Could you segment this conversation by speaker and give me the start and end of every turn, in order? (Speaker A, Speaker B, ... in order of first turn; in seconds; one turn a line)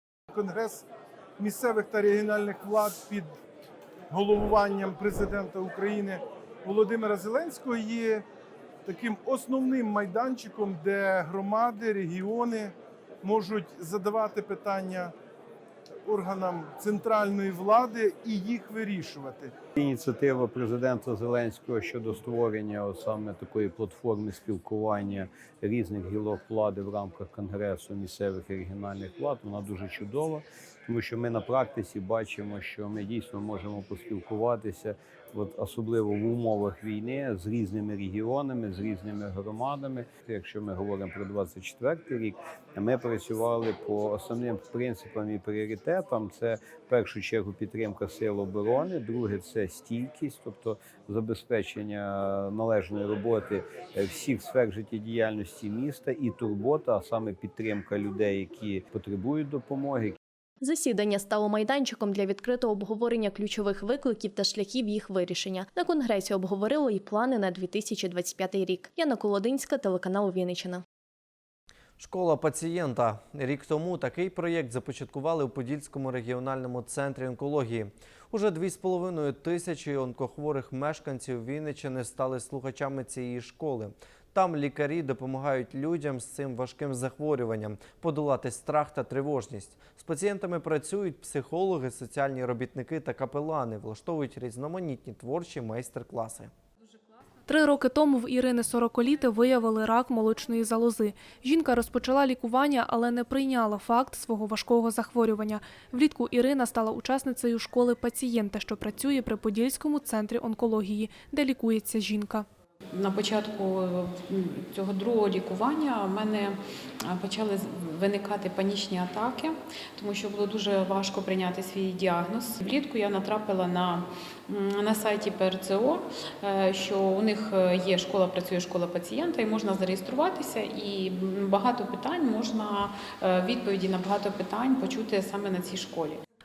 Speaker A: 0.3-0.8
Speaker A: 1.4-3.3
Speaker A: 4.1-8.2
Speaker A: 8.9-12.7
Speaker A: 13.2-15.1
Speaker A: 16.1-19.5
Speaker B: 19.8-60.2
Speaker C: 60.7-70.8
Speaker D: 72.0-96.5
Speaker E: 97.5-112.5
Speaker F: 112.9-136.2